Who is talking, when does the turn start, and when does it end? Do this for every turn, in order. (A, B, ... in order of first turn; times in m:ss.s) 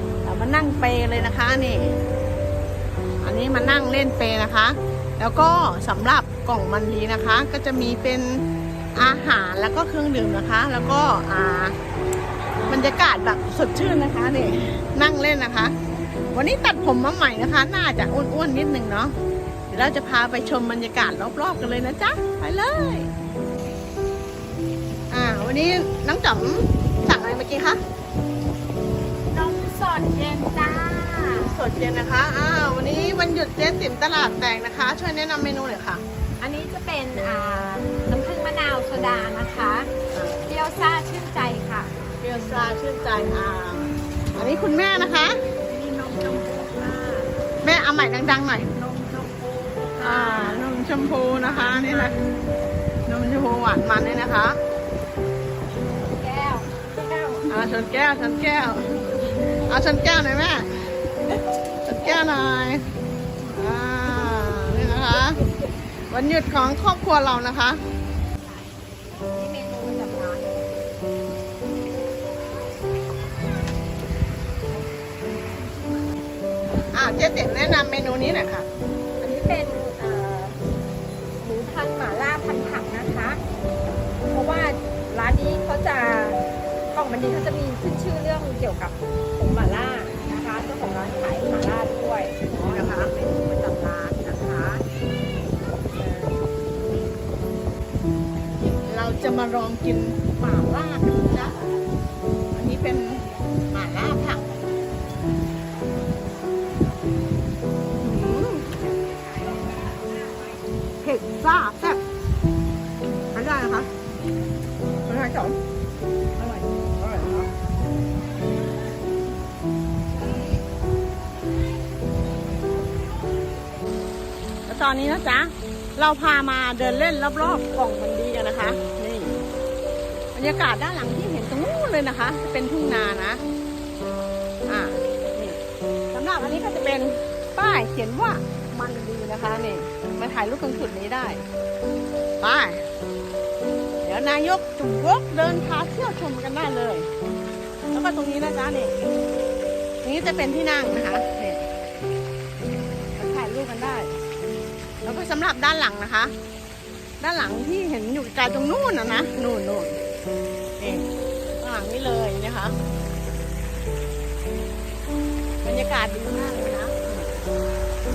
0:00.2-0:02.0 A
0:03.2-0:11.8 A
0:12.7-0:15.8 A
0:16.3-0:19.2 A
0:19.7-0:23.1 A
0:25.1-0:27.8 A
0:29.3-0:31.6 B
0:31.4-0:36.0 A
0:36.4-0:39.9 B
0:40.4-0:42.0 B
0:42.2-0:46.8 A
0:46.8-0:47.3 B
0:47.6-0:49.3 A
0:49.3-0:50.7 B
0:50.0-0:52.2 A
0:51.4-0:52.2 B
0:53.1-0:54.6 A
0:56.0-0:57.5 B
0:57.5-1:00.8 A
1:01.8-1:02.9 A
1:03.5-1:05.4 A
1:06.1-1:07.8 A
1:09.2-1:10.7 B
1:16.9-1:18.7 A
1:19.2-1:20.6 B
1:21.4-1:23.4 B
1:24.3-1:26.4 B
1:26.9-1:34.8 B
1:32.6-1:33.1 A
1:36.0-1:36.3 B
1:38.6-1:41.8 A
1:42.5-1:44.6 A
1:48.0-1:48.8 A
1:51.0-1:52.0 A
1:53.3-1:53.9 A
1:55.1-1:55.5 A
1:56.4-1:57.4 B
2:04.7-2:09.4 A
2:10.3-2:13.4 A
2:14.7-2:15.6 A
2:16.1-2:21.4 A
2:22.4-2:22.9 A
2:24.0-2:27.1 A
2:27.9-2:29.0 A
2:30.0-2:31.7 A
2:33.2-2:34.2 A
2:35.0-2:36.3 A
2:37.2-2:40.0 A
2:40.8-2:41.1 A
2:41.6-2:42.8 A
2:45.6-2:47.3 A